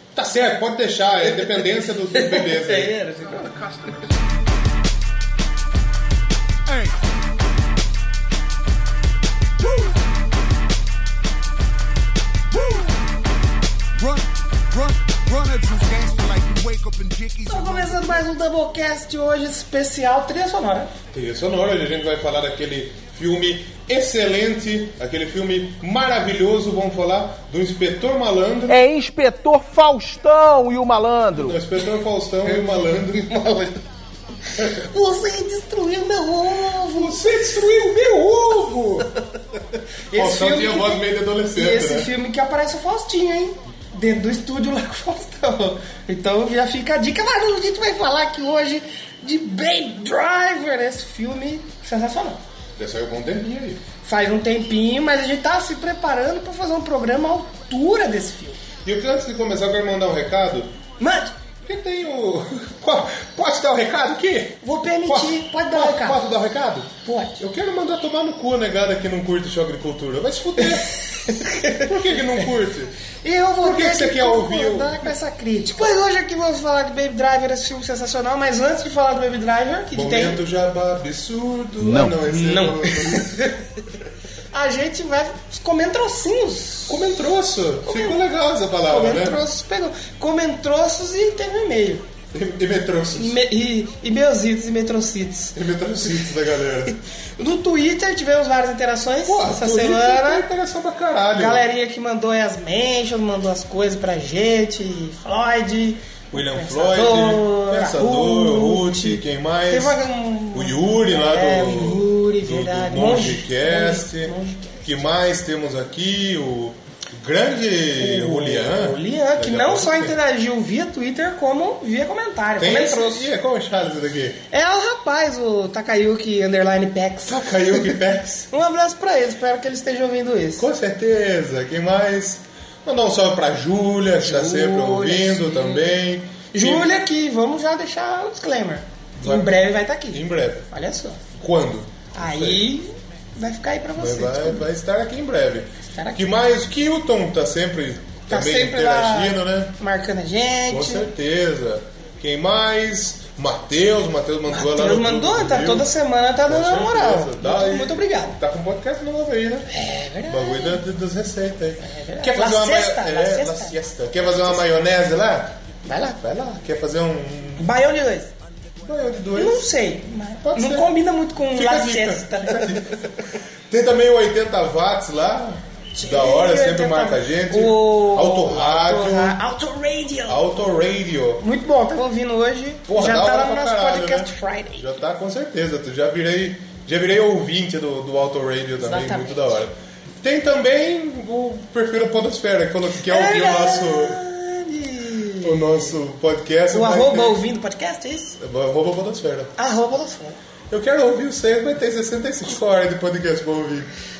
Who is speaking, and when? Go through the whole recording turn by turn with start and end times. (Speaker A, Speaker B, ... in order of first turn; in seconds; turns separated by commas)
Speaker A: 0.1-2.9, Speaker B: 2.1-3.5, Speaker C: 6.7-7.0, Speaker C: 9.6-10.0, Speaker C: 12.5-13.0, Speaker C: 13.9-18.2, Speaker B: 17.4-20.9, Speaker A: 21.1-28.8, Speaker D: 28.7-31.6, Speaker A: 31.3-33.3, Speaker B: 33.3-33.7, Speaker B: 34.8-37.2, Speaker A: 36.9-39.1, Speaker B: 40.1-52.4, Speaker A: 40.1-42.1, Speaker A: 52.8-53.8, Speaker B: 54.0-58.6, Speaker A: 58.8-60.7, Speaker B: 61.0-61.3, Speaker A: 61.6-70.9, Speaker B: 64.6-66.2, Speaker B: 67.0-67.4, Speaker B: 71.2-71.9, Speaker A: 71.8-72.9, Speaker B: 73.2-80.4, Speaker A: 73.6-75.1, Speaker A: 79.9-83.3, Speaker B: 82.2-83.5, Speaker B: 84.5-87.1, Speaker A: 86.9-89.4, Speaker B: 87.8-88.2, Speaker B: 88.9-92.0, Speaker A: 92.3-93.4, Speaker B: 93.1-95.6, Speaker A: 95.5-96.9, Speaker B: 97.4-100.4, Speaker A: 99.2-101.6, Speaker B: 101.3-114.8, Speaker A: 106.3-110.0, Speaker A: 110.5-120.1, Speaker B: 118.0-123.2, Speaker A: 122.6-124.4, Speaker B: 124.5-128.0, Speaker A: 127.2-128.5, Speaker B: 128.5-130.7, Speaker A: 130.6-136.9, Speaker B: 134.2-135.9, Speaker B: 136.5-141.2, Speaker A: 139.2-139.5, Speaker A: 140.1-140.7, Speaker A: 141.4-142.6, Speaker B: 142.1-144.7, Speaker A: 143.9-149.7, Speaker B: 145.9-146.3, Speaker B: 148.3-151.1, Speaker A: 150.7-155.9, Speaker B: 154.5-158.4, Speaker A: 156.4-159.7, Speaker B: 159.7-160.8, Speaker A: 160.3-165.6, Speaker B: 161.8-163.8, Speaker B: 165.8-166.2, Speaker A: 166.2-167.7, Speaker B: 167.6-168.3, Speaker A: 168.8-169.7, Speaker B: 169.3-172.8, Speaker A: 170.4-170.9, Speaker A: 171.5-173.1, Speaker A: 173.7-179.4, Speaker B: 175.9-180.4, Speaker A: 180.3-181.4, Speaker B: 181.4-184.9, Speaker A: 182.9-194.2, Speaker B: 188.8-189.6, Speaker B: 193.1-195.9, Speaker A: 195.4-197.4, Speaker B: 196.7-198.4, Speaker A: 198.4-199.5, Speaker B: 199.6-200.4, Speaker A: 200.7-203.9